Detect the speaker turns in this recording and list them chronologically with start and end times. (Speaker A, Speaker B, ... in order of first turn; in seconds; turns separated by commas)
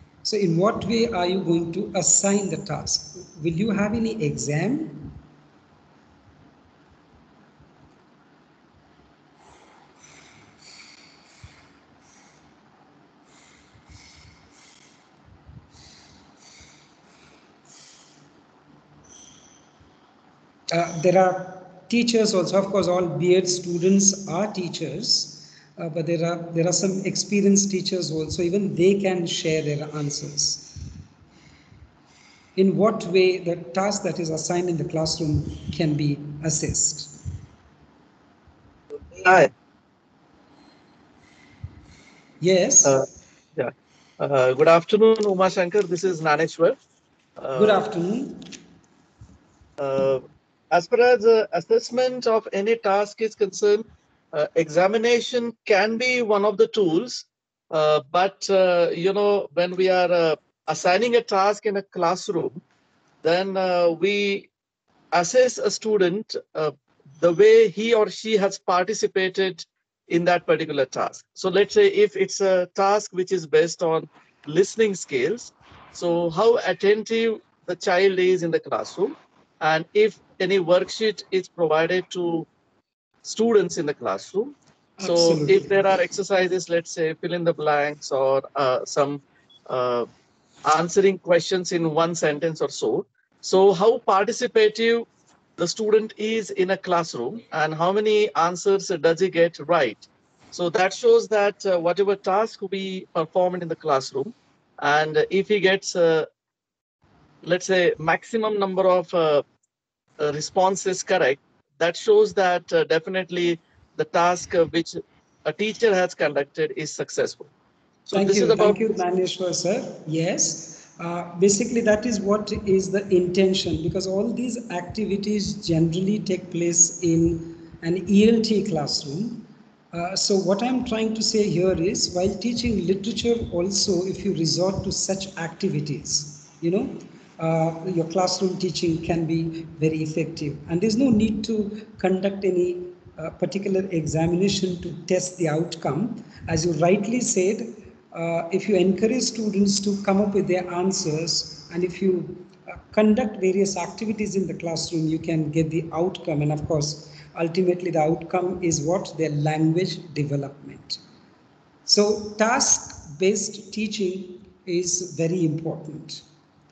Speaker A: 0.2-5.2, Speaker A: 20.7-30.8, Speaker A: 32.5-37.2, Speaker B: 39.1-39.5, Speaker A: 42.4-43.0, Speaker B: 43.6-46.8, Speaker B: 47.4-47.9, Speaker A: 47.6-48.5, Speaker B: 49.8-62.6, Speaker B: 63.2-64.5, Speaker B: 65.1-82.5, Speaker B: 83.2-90.1, Speaker A: 85.0-85.8, Speaker B: 90.7-95.1, Speaker B: 95.6-106.3, Speaker B: 107.4-109.4, Speaker B: 110.2-117.5, Speaker B: 118.1-119.0, Speaker A: 118.1-161.0, Speaker A: 161.9-166.2